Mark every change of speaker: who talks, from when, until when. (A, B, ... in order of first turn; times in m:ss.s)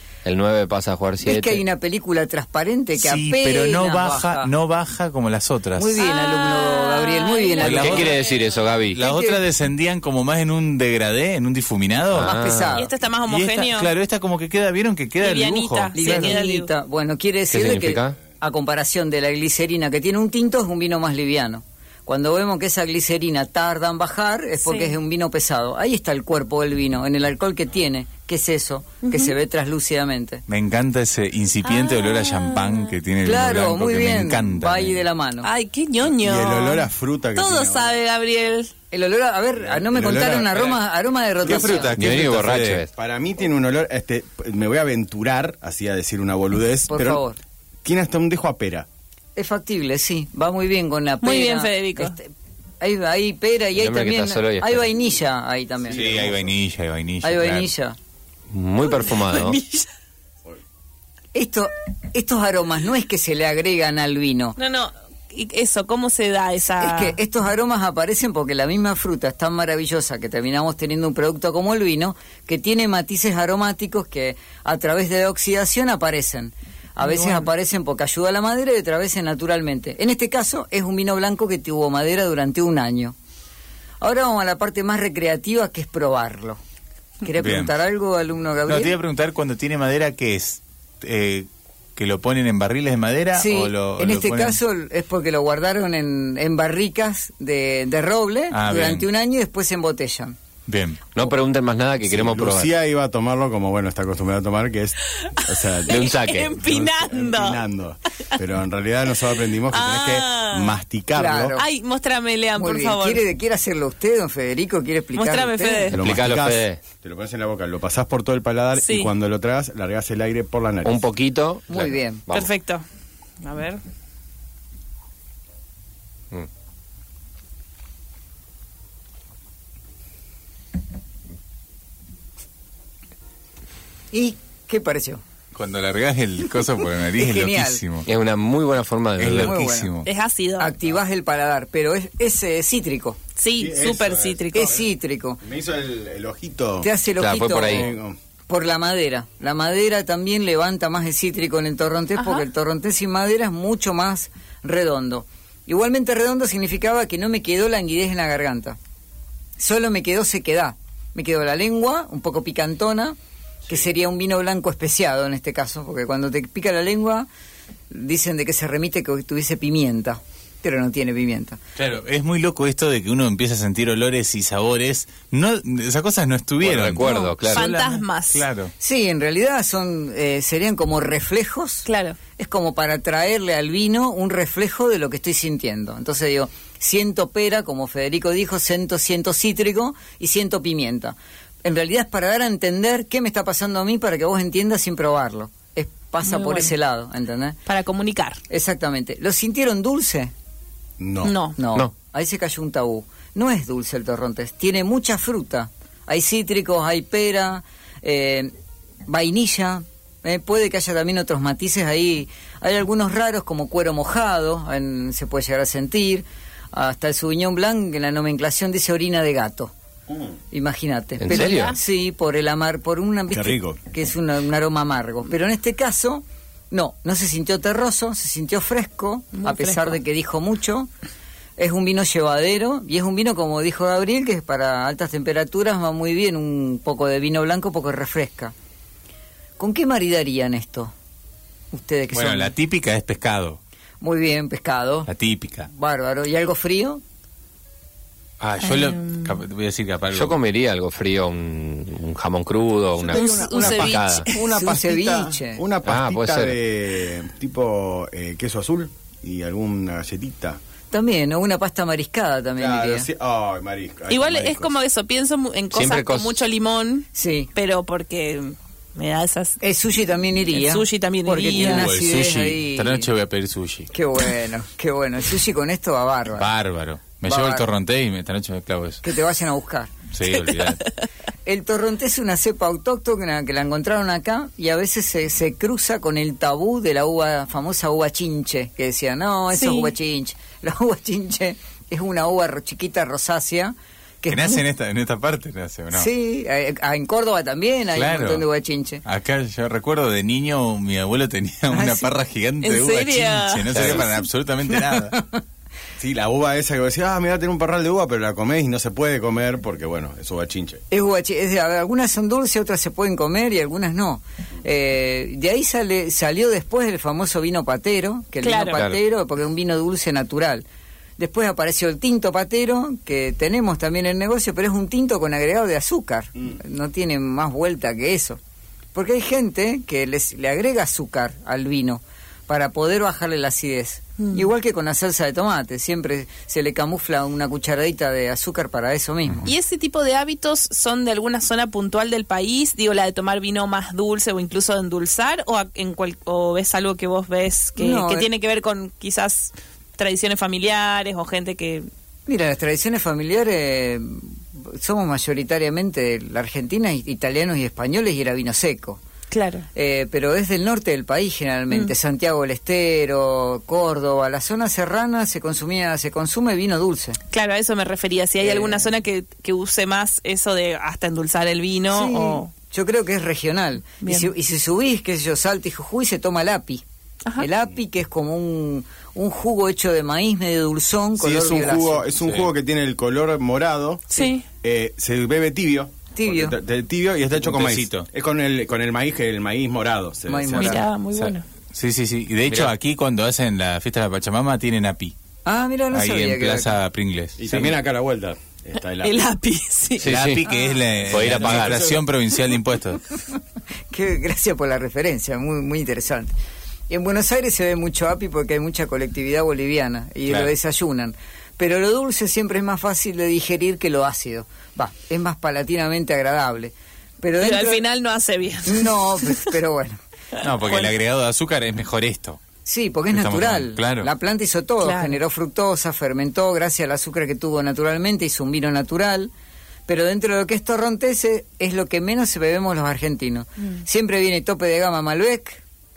0:00.2-0:01.6 A
0:01.2-0:04.5 B
0:03.0-0:06.0 C
0:05.8-0:08.2 B
0:06.0-0:08.4 D
0:07.6-0:08.2 C
0:07.6-0:09.0 A
0:08.9-0:12.3 C
0:09.0-0:09.4 B
0:12.1-0:12.8 A
0:12.2-0:12.9 B
0:12.7-0:13.9 D
0:13.3-0:16.3 C
0:15.2-0:16.7 D
0:15.9-0:30.4 B
0:17.5-0:18.2 A
0:24.6-0:25.0 D
0:29.0-0:29.3 D
0:30.5-0:35.0 C
0:31.6-0:33.0 D
0:33.2-0:35.5 B
0:35.4-0:38.7 D
0:36.1-0:38.0 E
0:38.9-0:41.9 B
0:39.6-0:40.8 E
0:41.4-0:42.8 C
0:41.4-0:41.8 E
0:42.0-0:42.9 A
0:42.9-0:47.2 E
0:46.9-0:47.4 B
0:47.8-0:48.9 E
0:49.4-0:56.3 B
0:51.2-0:52.1 D
0:53.8-0:54.9 A
0:55.9-0:56.5 E
0:55.9-0:57.7 C
0:57.2-0:58.0 B
0:58.5-0:59.6 A
0:58.9-0:59.9 D
1:01.3-1:04.6 B
1:04.6-1:07.2 D
1:06.8-1:23.1 B
1:17.0-1:17.5 D
1:24.0-1:26.6 B
1:27.2-1:29.0 B
1:27.4-1:27.7 C
1:28.7-1:34.6 C
1:33.3-1:40.3 B
1:38.5-1:39.0 C
1:40.7-1:41.0 C
1:41.1-1:42.7 A
1:42.1-1:46.0 E
1:45.3-1:47.6 D
1:45.9-1:46.6 A
1:46.6-1:51.6 E
1:49.7-1:50.8 D
1:51.1-1:51.7 B
1:51.6-1:53.2 D
1:52.6-1:55.9 B
1:55.1-1:56.0 D
1:55.9-2:01.0 E
1:56.0-1:56.8 A
1:58.8-1:59.1 D
2:00.8-2:02.5 A
2:01.7-2:02.2 B
2:02.3-2:02.8 D
2:03.4-2:03.8 D
2:14.1-2:15.2 B
2:15.5-2:18.1 C
2:17.2-2:17.8 B
2:18.0-2:19.6 A
2:19.2-2:20.1 C
2:19.3-2:19.9 B
2:20.0-2:20.7 D
2:20.6-2:23.2 B
2:23.4-2:24.8 D
2:23.6-2:24.8 E
2:24.5-2:25.4 B
2:25.4-2:26.9 E
2:26.8-2:27.9 B
2:27.2-2:27.9 A
2:27.7-2:28.2 E
2:28.5-2:38.8 B
2:32.2-2:32.4 D
2:39.6-2:43.2 B
2:43.7-2:47.3 B
2:47.9-2:51.6 B
2:51.8-2:58.7 C
2:56.6-2:57.7 A
2:57.0-2:58.5 D
2:58.8-3:17.6 B
3:01.8-3:02.2 D
3:16.2-3:16.7 D
3:17.6-3:18.4 D
3:18.5-3:20.3 B
3:21.0-3:21.3 E
3:21.2-3:21.6 D
3:21.6-3:28.5 B
3:29.1-3:39.7 B
3:40.5-3:50.9 B
3:41.2-3:41.8 A
3:41.3-3:41.8 D
3:43.3-3:43.8 E
3:49.4-3:50.0 D
3:51.6-3:58.5 B
3:59.6-4:00.9 B
4:01.7-4:02.5 B
4:02.1-4:03.6 C
4:04.0-4:05.1 B
4:05.1-4:05.7 C
4:05.7-4:07.0 B
4:08.4-4:10.4 C
4:08.6-4:09.4 D
4:10.1-4:14.3 A
4:13.0-4:20.6 E
4:13.1-4:14.4 D
4:14.5-4:15.6 B
4:15.8-4:16.6 A
4:20.9-4:23.1 B
4:22.6-4:24.7 E
4:24.1-4:29.6 D
4:25.7-4:26.4 A
4:27.1-4:27.5 B
4:29.6-4:33.1 B
4:30.5-4:31.9 D
4:31.5-4:33.9 C
4:33.9-4:36.5 B
4:36.3-4:39.0 C
4:37.2-4:37.6 B
4:39.0-4:39.9 B
4:40.1-4:40.8 C
4:40.3-4:40.9 D
4:41.4-4:54.6 B
4:49.5-4:49.9 D
4:54.3-4:56.1 C
4:55.9-4:59.0 B
4:57.9-4:58.4 C
4:59.0-5:05.2 C
5:01.7-5:02.1 B
5:02.6-5:04.1 D
5:03.7-5:04.0 A
5:04.9-5:05.4 B
5:06.0-5:10.8 E
5:10.9-5:20.6 B
5:18.4-5:18.8 D
5:21.2-5:28.4 B
5:28.9-5:39.4 B
5:34.2-5:34.5 D
5:39.4-5:51.9 D
5:47.8-5:48.3 B
5:52.3-5:59.0 B
5:59.3-5:59.7 D
5:59.7-6:07.2 B
6:07.3-6:12.5 D
6:08.4-6:08.9 B
6:11.9-6:16.8 B
6:14.0-6:14.3 D
6:17.4-6:22.1 B
6:21.2-6:24.1 E
6:22.2-6:22.5 C
6:24.1-6:24.4 D
6:24.6-6:30.8 E
6:26.1-6:26.5 B
6:27.4-6:28.1 C
6:30.3-6:30.8 B
6:30.6-6:31.4 D
6:31.1-6:35.1 C
6:32.5-6:32.7 A
6:35.4-6:36.7 B
6:35.9-6:37.8 C
6:37.4-6:39.2 E
6:39.0-6:40.1 D
6:40.0-6:40.4 A
6:40.0-6:43.0 C
6:41.1-6:41.9 A
6:41.1-6:42.0 E
6:43.9-6:46.3 B
6:46.9-6:57.8 B
6:57.4-6:59.5 D
6:58.6-7:00.0 B
7:00.4-7:02.4 C
7:00.6-7:00.9 D
7:02.6-7:09.3 B
7:03.1-7:04.1 C
7:04.8-7:05.2 D
7:09.9-7:15.6 B